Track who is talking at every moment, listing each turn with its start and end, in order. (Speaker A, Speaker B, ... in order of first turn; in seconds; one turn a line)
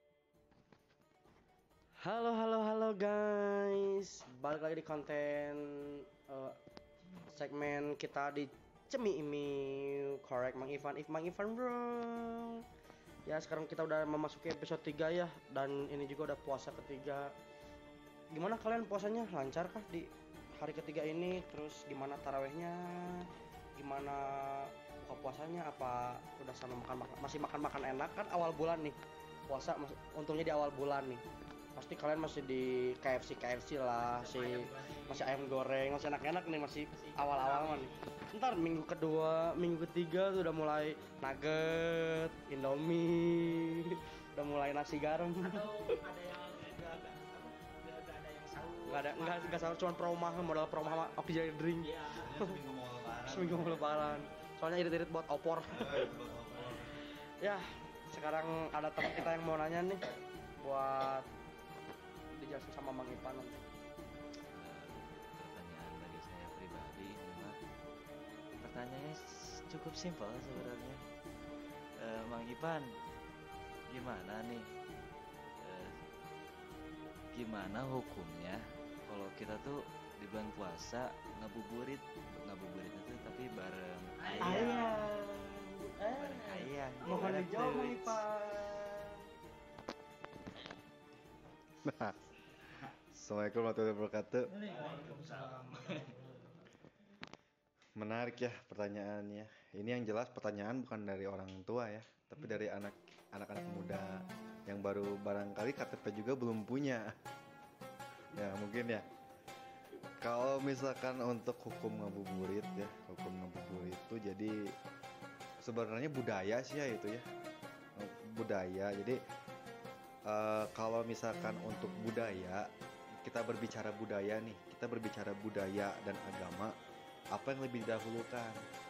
Speaker A: 2.0-6.6
Speaker A: 7.2-12.6
Speaker A: 13.2-17.3
Speaker A: 18.3-29.0
Speaker A: 29.5-31.2
Speaker A: 31.8-45.7
Speaker B: 34.1-35.3
Speaker B: 37.0-37.9
Speaker B: 45.4-49.8
Speaker A: 48.9-52.5
Speaker B: 51.9-52.2
Speaker C: 52.2-54.2
Speaker A: 53.2-56.2
Speaker C: 55.7-57.0
Speaker A: 57.4-60.0
Speaker A: 60.6-61.2
Speaker A: 62.3-63.6
Speaker D: 64.5-67.6
Speaker D: 68.6-71.0
Speaker D: 72.0-72.9
Speaker D: 73.9-74.7
Speaker D: 75.6-75.9
Speaker D: 77.3-84.8
Speaker B: 84.4-85.0
Speaker A: 84.4-89.2
Speaker D: 86.2-88.2
Speaker C: 91.8-92.2
Speaker C: 93.1-94.5
Speaker B: 94.7-96.1
Speaker D: 94.7-95.8
Speaker C: 98.0-107.1
Speaker C: 108.3-109.0
Speaker C: 110.2-114.7
Speaker C: 115.6-117.2
Speaker C: 118.0-119.2
Speaker C: 120.3-122.6
Speaker C: 123.2-126.7
Speaker C: 127.3-128.6